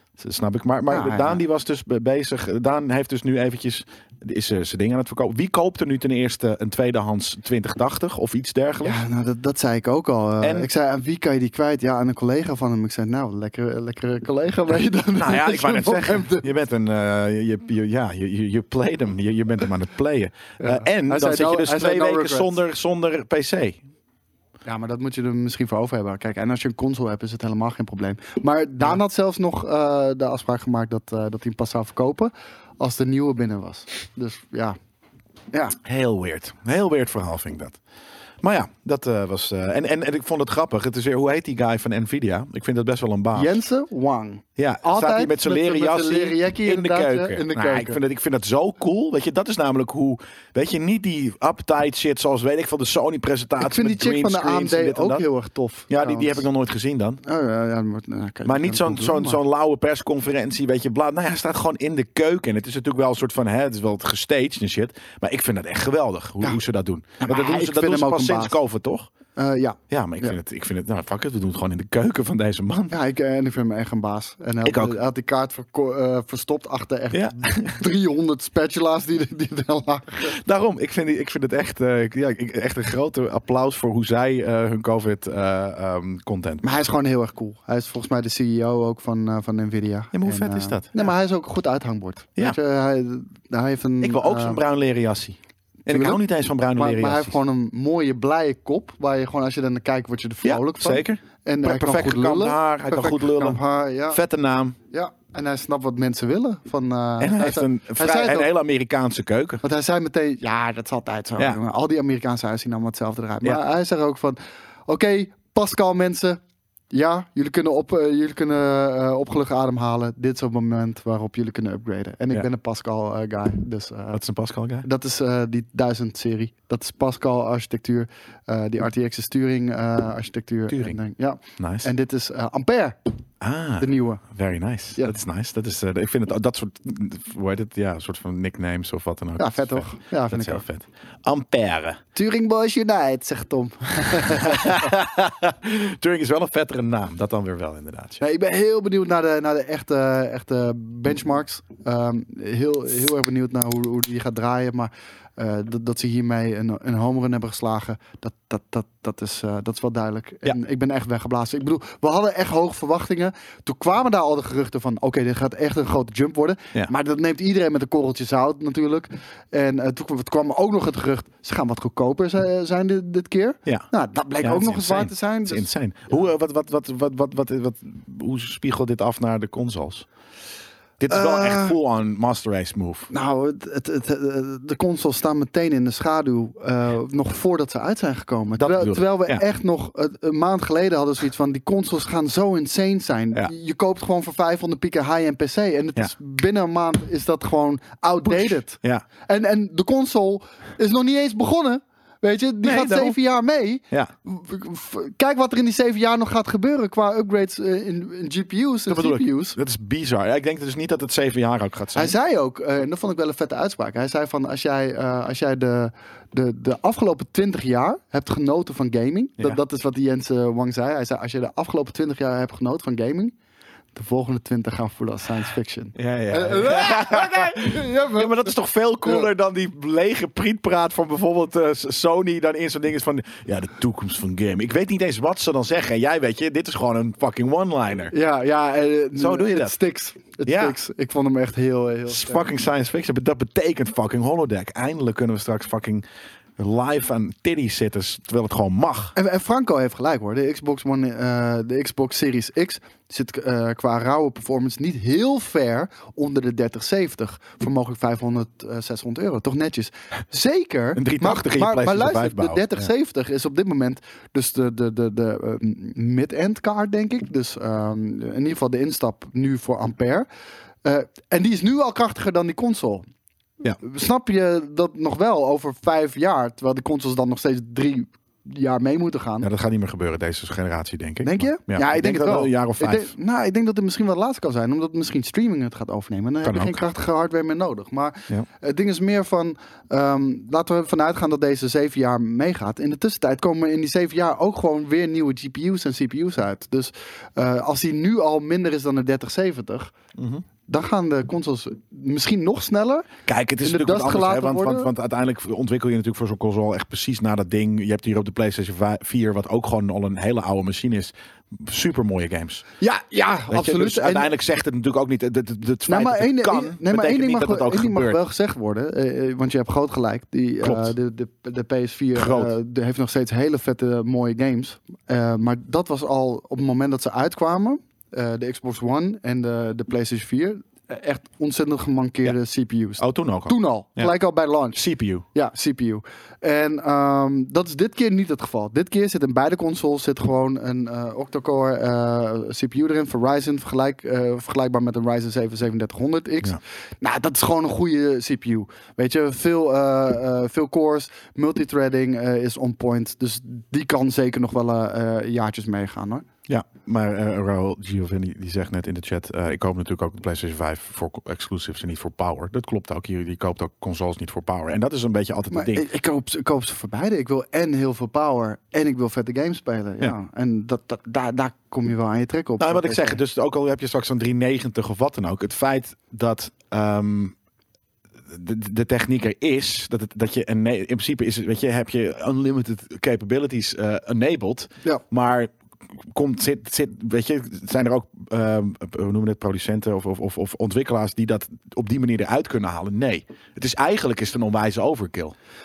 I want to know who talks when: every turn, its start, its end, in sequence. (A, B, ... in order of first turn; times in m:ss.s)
0:00.2-0:09.0 A
0:00.9-0:01.4 B
0:08.8-0:16.5 B
0:10.4-0:10.7 A
0:15.2-0:23.8 A
0:20.6-0:22.6 B
0:24.6-0:34.8 B
0:35.8-0:37.8 A
0:38.4-0:43.6 A
0:43.3-0:48.0 B
0:44.6-0:55.2 A
0:53.6-0:56.4 B
0:55.9-0:57.2 A
0:57.2-0:59.4 B
0:58.4-1:09.1 A
1:07.2-1:08.6 B
1:09.4-1:10.3 B
1:09.9-1:12.9 A
1:12.9-1:20.3 B
1:14.6-1:15.0 A
1:17.1-1:17.8 A
1:20.2-1:26.8 A
1:26.6-1:34.6 B
1:30.1-1:31.1 A
1:34.0-1:37.4 A
1:35.9-1:36.2 B
1:36.8-1:44.2 B
1:40.4-1:44.8 A
1:44.9-1:48.5 B
1:47.2-1:49.6 A
1:49.6-1:56.4 B
1:56.9-2:04.2 B
2:04.1-2:04.8 A
2:04.8-2:13.0 B
2:10.7-2:11.0 A
2:11.6-2:11.9 A
2:13.4-2:22.0 A
2:13.8-2:14.2 B
2:19.4-2:20.6 B
2:22.1-2:25.0 B
2:24.2-2:28.2 A
2:28.2-2:56.2 B
2:54.4-3:00.1 A
3:01.0-3:03.1 A
3:01.1-3:01.8 B
3:03.1-3:29.6 B
3:08.6-3:09.4 A
3:18.2-3:19.0 A
3:22.6-3:23.2 A
3:28.9-3:32.1 A
3:31.9-3:43.3 B
3:43.9-3:48.5 B
3:46.0-3:58.1 A
3:58.1-4:02.5 B
3:59.2-3:59.7 A
4:00.4-4:00.8 A
4:02.1-4:06.0 A
4:06.6-4:09.1 A
4:09.2-4:30.2 B
4:20.9-4:22.9 A
4:30.8-4:33.0 B
4:33.8-4:39.5 B
4:39.4-4:43.1 A
4:41.2-4:59.9 B
4:46.4-4:46.8 A
5:00.2-5:00.4 A
5:00.7-5:03.1 B
5:03.2-5:12.6 A
5:03.6-5:04.9 B
5:12.8-5:14.3 B
5:13.5-5:18.2 A
5:15.9-5:34.8 B
5:20.6-5:20.9 A
5:22.2-5:22.5 A
5:33.0-5:34.1 A
5:34.7-5:35.2 A
5:35.3-5:56.2 B
5:56.5-6:05.9 A
6:05.5-6:13.2 B
6:12.6-6:17.3 A
6:18.3-6:25.5 A
6:26.1-6:35.3 A